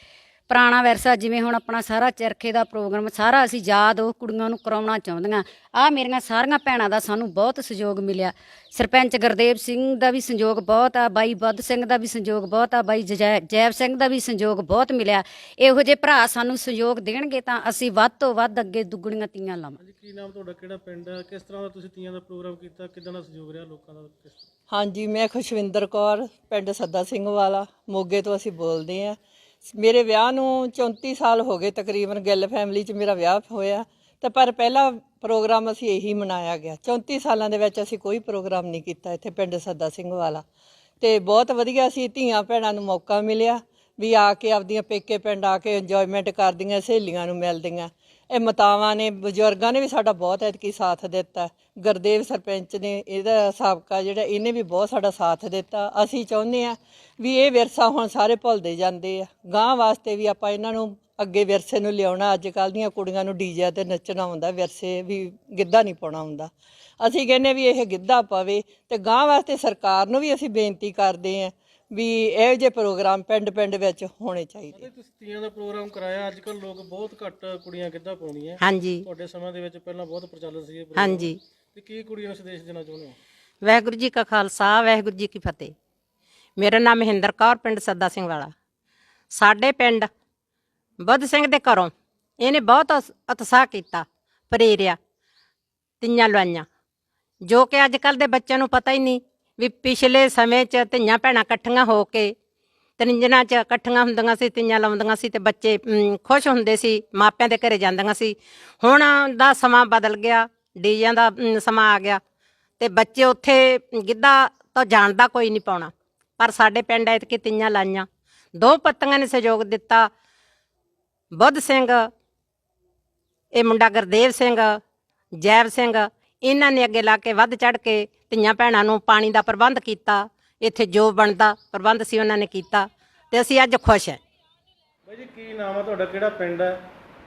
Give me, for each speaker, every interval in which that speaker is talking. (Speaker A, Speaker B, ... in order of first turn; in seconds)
Speaker A: 0.5-19.8
Speaker B: 19.8-24.5, 74.7-83.2, 135.1-136.8
Speaker C: 24.7-40.4, 41.0-74.9
Speaker D: 78.6-79.0, 81.0-81.4, 83.6-85.7, 86.6-88.5, 89.3-90.1, 91.0-95.0, 96.0-96.7, 97.5-102.3, 103.0-112.2, 112.8-120.1, 121.3-122.1, 123.5-124.8, 125.4-134.2